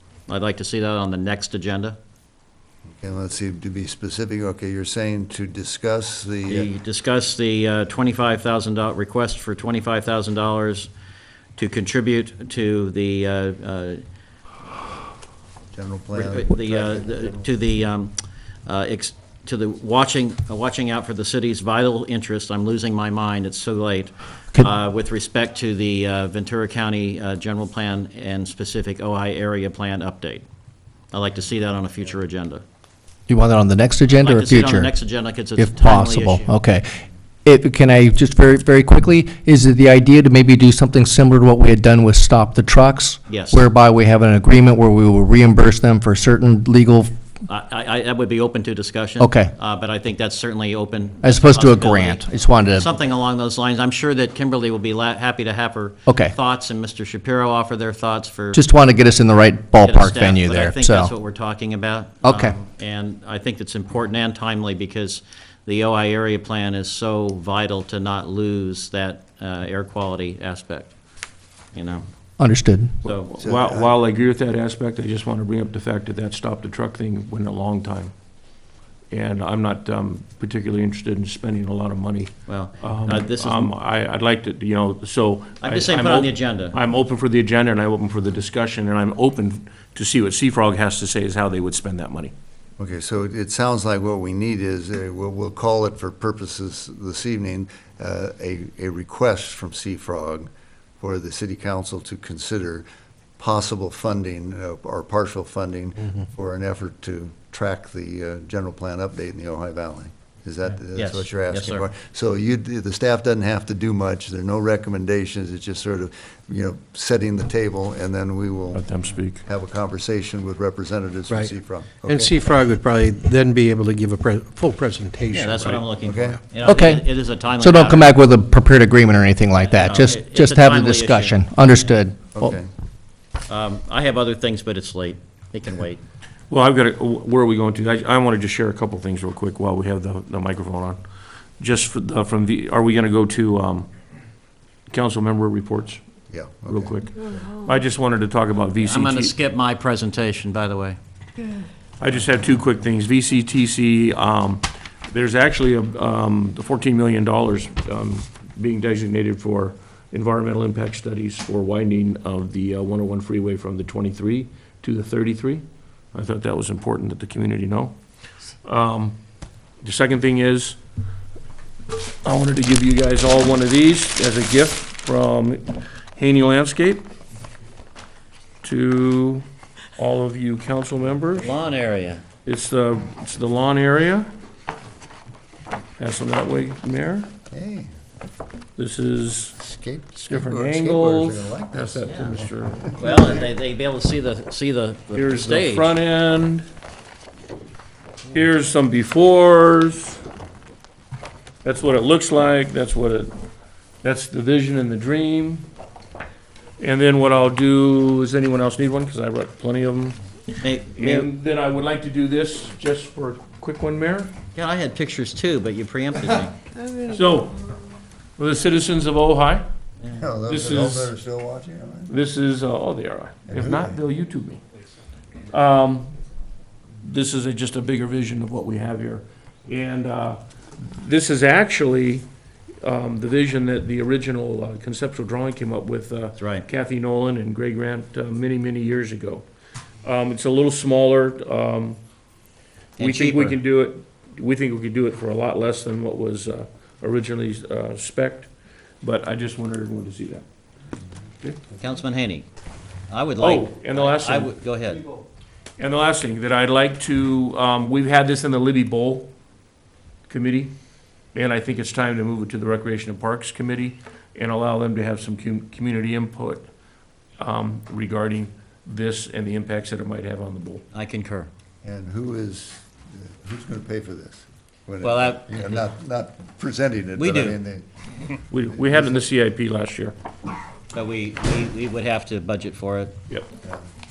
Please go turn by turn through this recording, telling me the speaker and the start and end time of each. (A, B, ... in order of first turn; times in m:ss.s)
0:00.3-0:02.0 A
0:02.9-0:06.7 B
0:06.5-0:10.9 A
0:11.6-0:14.0 A
0:15.7-0:17.5 B
0:16.1-0:30.4 A
0:31.1-0:32.6 A
0:33.3-0:34.9 C
0:34.2-0:36.5 A
0:35.5-0:36.8 C
0:37.4-0:47.1 C
0:43.3-0:43.6 A
0:47.5-0:58.6 A
0:49.2-0:49.5 C
0:51.2-0:52.9 C
0:56.1-0:56.3 C
0:58.5-1:01.1 C
0:59.8-1:10.9 A
1:02.2-1:02.5 C
1:11.7-1:12.0 A
1:12.4-1:12.9 C
1:13.0-1:13.3 A
1:13.0-1:18.1 D
1:13.4-1:13.9 B
1:19.1-1:32.3 D
1:22.5-1:23.7 A
1:25.6-1:26.8 A
1:32.8-1:40.5 B
1:41.0-1:42.8 B
1:43.4-1:58.8 B
1:50.9-1:51.9 A
1:58.7-1:59.4 D
1:59.4-2:02.3 B
2:01.3-2:06.4 E
2:05.3-2:08.1 A
2:06.0-2:06.4 B
2:06.6-2:07.0 C
2:07.6-2:12.5 C
2:09.6-2:11.4 A
2:12.3-2:12.7 B
2:13.5-2:16.0 A
2:16.5-2:21.0 D
2:21.6-2:23.9 D
2:24.9-2:26.0 D
2:26.3-2:27.0 B
2:26.7-2:29.3 D
2:28.8-2:31.0 A
2:32.0-2:47.9 D
2:48.6-2:49.2 D
2:49.8-2:50.8 D
2:52.2-2:57.1 D
2:58.6-2:59.4 D
3:00.0-3:01.5 D
3:01.3-3:02.2 A
3:02.4-3:04.3 D
3:06.0-3:07.3 D
3:07.5-3:07.9 B
3:08.8-3:09.6 D
3:09.6-3:13.4 B
3:10.2-3:13.3 D
3:12.0-3:12.3 A
3:13.0-3:15.9 A
3:15.1-3:16.7 D
3:18.3-3:20.2 D
3:21.6-3:23.3 D
3:24.0-3:25.7 D
3:26.8-3:30.2 D
3:30.6-3:31.3 A
3:31.0-3:34.3 D
3:34.5-3:36.5 A
3:37.0-3:37.6 D
3:38.4-3:39.6 D
3:40.0-3:42.1 B
3:40.5-3:41.1 D
3:42.1-3:44.6 D
3:43.5-3:44.0 B
3:45.5-3:46.1 D
3:47.0-3:52.2 D
3:52.8-3:59.4 D
3:56.4-3:56.6 A
4:00.0-4:02.0 D
4:03.0-4:03.6 A
4:03.0-4:08.5 D
4:09.0-4:10.4 D
4:11.7-4:12.5 A
4:13.1-4:15.0 A
4:13.4-4:14.5 D
4:15.8-4:19.3 D
4:20.3-4:20.7 D
4:21.3-4:26.7 D
4:27.4-4:30.8 D
4:30.9-4:31.5 A
4:31.8-4:37.8 B
4:35.0-4:35.8 A
4:37.2-4:37.6 A
4:38.5-4:40.1 D
4:38.7-4:39.2 B
4:40.9-4:43.1 A